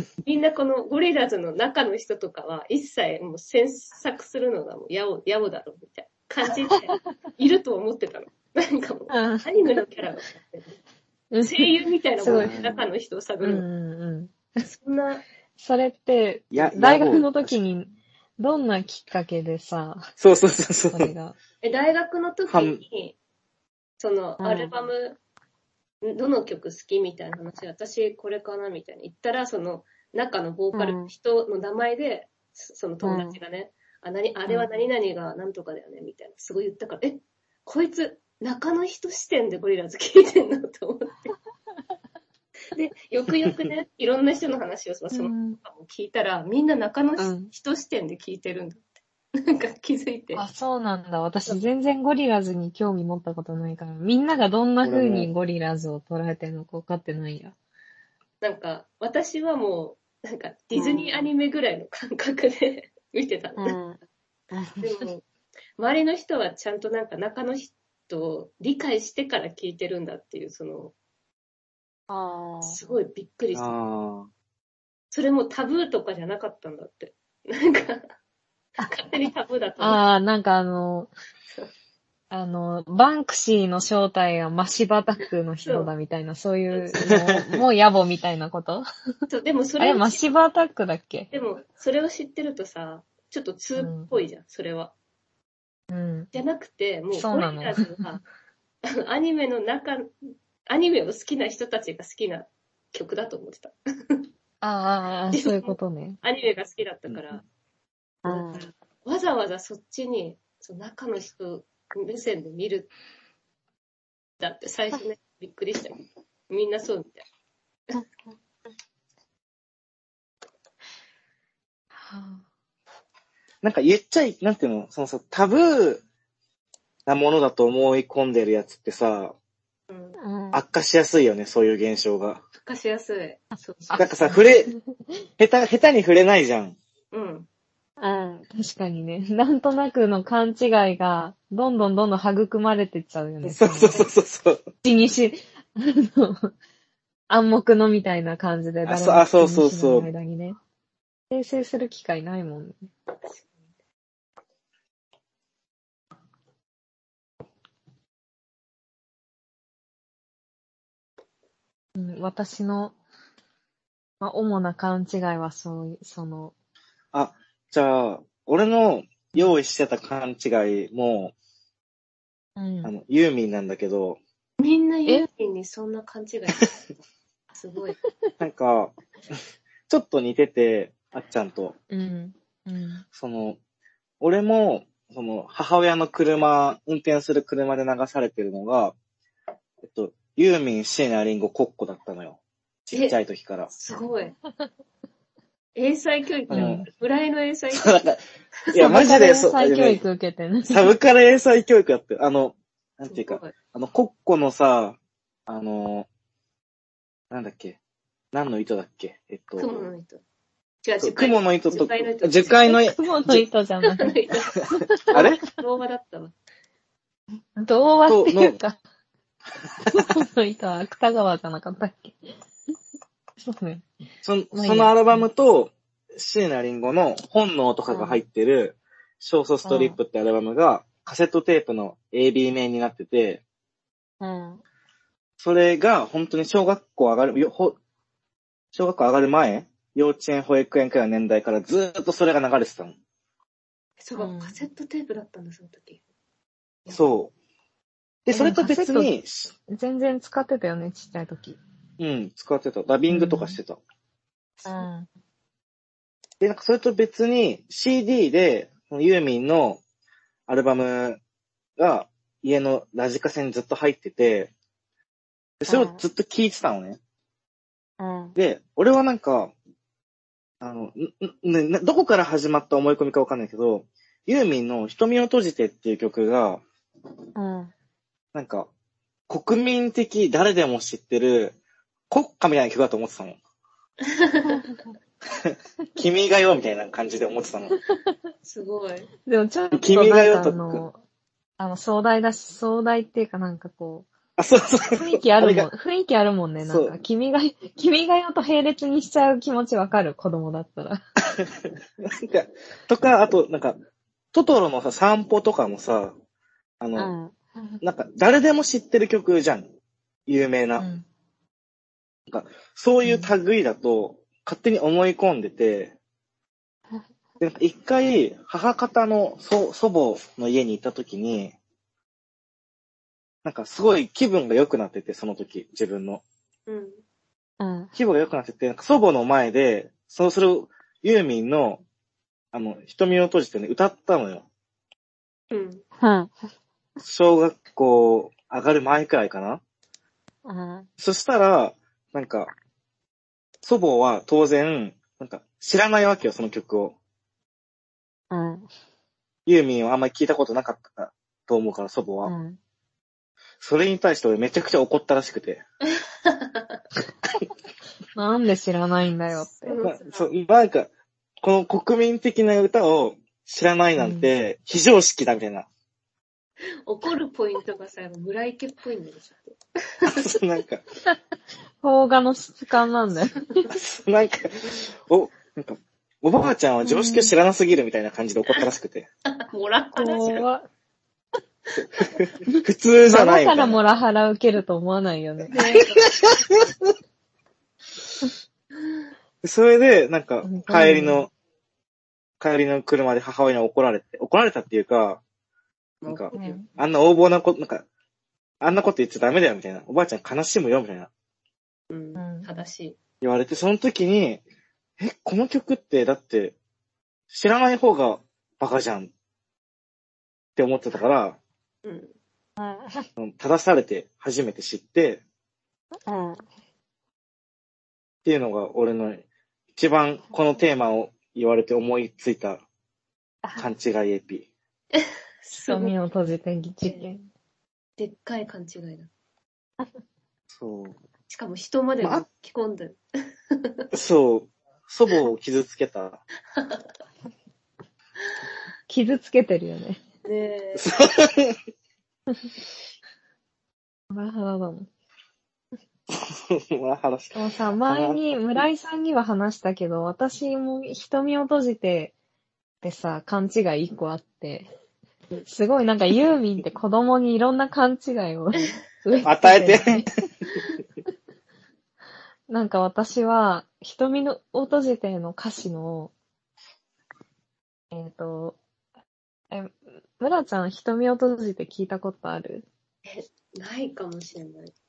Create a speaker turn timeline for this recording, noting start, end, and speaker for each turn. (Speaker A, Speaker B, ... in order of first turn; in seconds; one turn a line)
Speaker A: 0.2-10.8
Speaker B: 9.1-9.5
Speaker B: 11.3-12.6
Speaker A: 11.4-13.7
Speaker C: 12.2-12.8
Speaker B: 13.4-14.3
Speaker A: 14.7-15.2
Speaker B: 15.6-20.1
Speaker C: 16.5-17.6
Speaker C: 20.2-21.1
Speaker B: 20.9-21.4
Speaker A: 21.6-23.2
Speaker C: 22.5-22.8
Speaker A: 24.0-25.2
Speaker D: 24.4-24.7
Speaker A: 26.0-41.4
Speaker D: 30.7-31.1
Speaker D: 33.0-33.4
Speaker A: 42.7-48.8
Speaker B: 45.1-45.6
Speaker A: 49.4-50.4
Speaker B: 50.4-57.5
Speaker C: 54.8-55.3
Speaker A: 58.4-63.8
Speaker D: 60.7-61.3
Speaker D: 63.6-65.0
Speaker A: 64.8-65.2
Speaker A: 65.8-70.9
Speaker D: 72.1-72.8
Speaker A: 72.6-73.7
Speaker C: 73.5-74.3
Speaker A: 75.1-78.1
Speaker A: 78.8-80.0
Speaker B: 79.8-81.1
Speaker B: 82.3-88.9
Speaker A: 85.7-85.9
Speaker C: 87.0-87.6
Speaker A: 89.3-90.2
Speaker B: 89.8-91.3
Speaker A: 91.3-94.9
Speaker B: 93.8-94.1
Speaker B: 95.9-96.3
Speaker A: 96.3-98.2
Speaker B: 97.1-97.9
Speaker A: 98.9-100.1
Speaker A: 100.7-104.2
Speaker B: 104.6-106.2
Speaker A: 105.3-107.4
Speaker D: 108.2-108.7
Speaker A: 108.3-112.9
Speaker A: 114.4-117.2
Speaker B: 122.0-122.4
Speaker C: 123.6-126.0
Speaker C: 127.1-129.3
Speaker A: 129.9-130.2
Speaker D: 130.2-130.6
Speaker C: 130.5-132.4
Speaker A: 132.6-134.4
Speaker C: 134.0-134.7
Speaker C: 135.4-136.8
Speaker A: 137.1-137.5
Speaker D: 138.0-138.4
Speaker B: 138.5-144.1
Speaker C: 143.4-144.7
Speaker B: 144.8-146.5
Speaker B: 147.3-150.6
Speaker C: 148.8-150.1
Speaker B: 151.3-152.9
Speaker A: 153.3-153.5
Speaker B: 162.0-162.9
Speaker B: 164.2-166.5
Speaker C: 167.1-171.3
Speaker B: 172.6-172.9
Speaker C: 172.8-174.2
Speaker A: 174.6-176.9
Speaker A: 177.5-178.0
Speaker C: 178.4-178.9
Speaker C: 179.9-181.8
Speaker B: 181.9-183.0
Speaker C: 183.1-183.6
Speaker C: 184.2-188.9
Speaker C: 189.8-193.7
Speaker A: 192.9-193.2
Speaker A: 193.7-194.4
Speaker A: 195.8-197.9
Speaker C: 196.5-196.8
Speaker B: 196.5-196.9
Speaker C: 197.7-198.2
Speaker C: 198.7-200.0
Speaker B: 198.7-200.9
Speaker C: 200.7-206.1
Speaker A: 203.1-203.6
Speaker C: 207.3-207.8
Speaker C: 208.3-209.8
Speaker A: 209.6-210.2
Speaker A: 210.8-212.8
Speaker C: 211.0-213.4
Speaker B: 212.7-214.2
Speaker A: 213.8-214.6
Speaker B: 214.8-215.3
Speaker C: 215.1-215.4
Speaker A: 215.1-216.3
Speaker B: 217.6-218.8
Speaker C: 218.1-218.6
Speaker C: 219.9-220.1
Speaker B: 219.9-222.2
Speaker B: 223.4-223.9
Speaker C: 224.2-233.4
Speaker B: 224.5-225.2
Speaker D: 227.9-228.2
Speaker D: 229.7-230.0
Speaker D: 234.2-234.6
Speaker C: 235.4-237.8
Speaker C: 238.7-242.9
Speaker A: 244.0-246.0
Speaker D: 244.2-244.5
Speaker C: 246.9-247.3
Speaker C: 248.3-249.5
Speaker B: 248.3-249.1
Speaker B: 249.7-251.6
Speaker C: 252.0-253.8
Speaker B: 253.1-253.6
Speaker B: 254.7-255.1
Speaker C: 256.4-259.8
Speaker C: 260.5-261.2
Speaker C: 261.8-264.5
Speaker C: 265.6-267.0
Speaker D: 265.7-266.0
Speaker D: 268.0-268.4
Speaker C: 268.4-269.5
Speaker C: 270.6-276.6
Speaker D: 277.4-277.7
Speaker C: 278.3-278.7
Speaker C: 279.3-281.6
Speaker C: 282.1-283.4
Speaker A: 284.2-284.6
Speaker C: 285.4-287.8
Speaker A: 288.4-289.1
Speaker B: 289.3-291.0
Speaker C: 289.7-290.8
Speaker B: 291.6-294.1
Speaker C: 294.4-295.7
Speaker B: 294.9-301.0
Speaker C: 296.6-296.9
Speaker C: 302.0-303.8
Speaker C: 304.3-306.1
Speaker C: 306.8-307.1
Speaker D: 307.0-307.4
Speaker C: 307.8-309.7
Speaker C: 310.3-310.9
Speaker C: 312.3-315.9
Speaker B: 313.0-313.3
Speaker C: 317.4-321.6
Speaker C: 323.4-326.2
Speaker A: 326.7-327.0
Speaker D: 327.6-327.9
Speaker C: 328.0-331.8
Speaker C: 332.5-334.4
Speaker A: 335.5-335.8
Speaker D: 336.0-336.3
Speaker C: 337.0-339.6
Speaker D: 340.4-340.9
Speaker C: 341.0-342.5
Speaker C: 343.6-346.9
Speaker D: 348.3-348.7
Speaker C: 349.5-352.3
Speaker D: 352.2-352.6
Speaker C: 353.6-355.6
Speaker A: 355.9-356.8
Speaker B: 358.1-359.8
Speaker A: 359.6-360.3
Speaker C: 359.8-360.9
Speaker C: 361.4-365.7
Speaker B: 364.0-364.3
Speaker A: 366.9-370.2
Speaker C: 370.1-370.8
Speaker B: 371.8-373.5
Speaker C: 373.7-379.1
Speaker B: 376.8-377.3
Speaker A: 379.3-380.4
Speaker B: 379.9-380.7
Speaker C: 382.0-383.8
Speaker B: 383.1-385.5
Speaker A: 385.5-386.1
Speaker C: 385.6-386.9
Speaker C: 389.4-391.3
Speaker B: 390.4-391.3
Speaker C: 392.4-395.2
Speaker A: 396.0-396.6
Speaker C: 396.1-397.9
Speaker B: 396.4-396.7
Speaker C: 398.6-401.1
Speaker A: 401.9-403.0
Speaker B: 402.2-402.5
Speaker C: 403.2-404.4
Speaker C: 405.0-406.6
Speaker C: 407.3-409.1
Speaker C: 410.6-411.4
Speaker A: 411.9-412.1
Speaker D: 412.6-413.1
Speaker C: 413.2-415.2
Speaker D: 416.1-416.4
Speaker C: 418.2-419.2
Speaker C: 419.8-422.6
Speaker C: 423.6-424.5
Speaker A: 424.9-425.9
Speaker B: 425.6-427.2
Speaker A: 428.0-429.1
Speaker C: 430.5-431.0
Speaker A: 431.3-433.0
Speaker A: 433.5-433.9
Speaker C: 433.9-436.2
Speaker A: 436.6-436.9
Speaker B: 438.9-440.0
Speaker A: 440.2-441.0
Speaker C: 440.8-441.6
Speaker B: 444.1-444.9
Speaker C: 446.1-448.2
Speaker B: 447.4-452.1
Speaker B: 452.8-454.7
Speaker B: 455.5-460.1
Speaker C: 459.2-460.1
Speaker B: 462.5-466.1
Speaker B: 467.9-468.6
Speaker B: 469.5-472.7
Speaker A: 473.1-474.7